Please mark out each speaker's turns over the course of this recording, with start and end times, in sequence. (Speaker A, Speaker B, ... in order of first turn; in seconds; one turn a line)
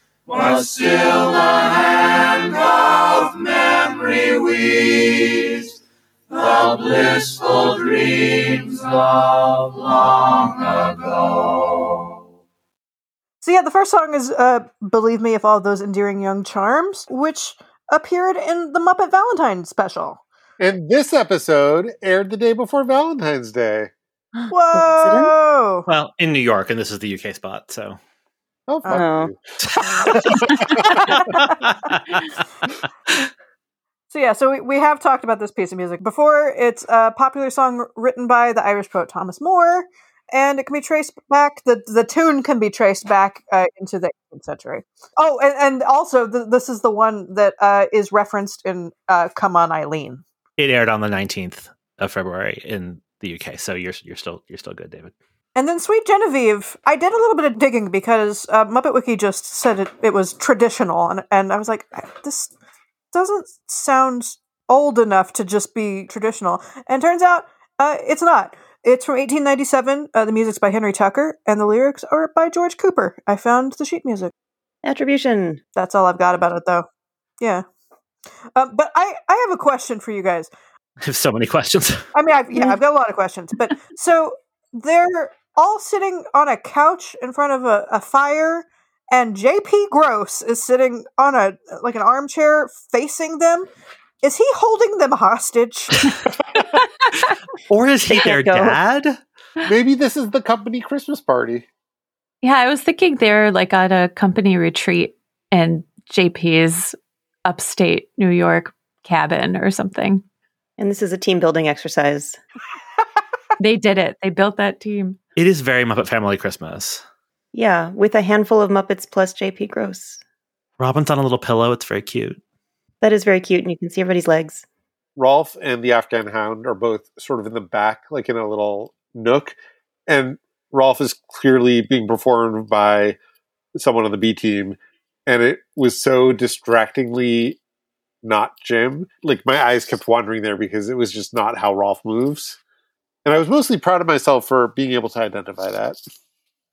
Speaker A: 6.7-8.7
Speaker A: 9.4-9.9
Speaker B: 13.4-20.2
Speaker C: 20.6-23.9
Speaker D: 24.4-25.3
Speaker B: 24.5-25.9
Speaker E: 25.9-28.0
Speaker C: 28.7-29.4
Speaker D: 28.9-29.3
Speaker E: 31.2-32.2
Speaker B: 34.1-50.2
Speaker E: 50.6-55.1
Speaker B: 55.5-62.5
Speaker B: 63.1-74.3
Speaker D: 74.8-75.6
Speaker B: 75.8-76.9
Speaker B: 77.4-77.7
Speaker B: 78.5-80.5
Speaker E: 81.0-82.0
Speaker B: 82.1-93.7
Speaker B: 94.2-96.0
Speaker E: 97.7-99.2
Speaker D: 98.1-98.8
Speaker C: 99.7-101.7
Speaker F: 102.4-106.9
Speaker F: 107.5-110.2
Speaker D: 110.8-112.4
Speaker F: 113.6-115.2
Speaker E: 115.3-117.0
Speaker D: 117.5-120.2
Speaker E: 120.8-122.4
Speaker D: 123.0-124.6
Speaker C: 125.2-129.6
Speaker C: 130.1-133.2
Speaker C: 133.8-137.6
Speaker C: 138.2-142.6
Speaker C: 143.2-146.0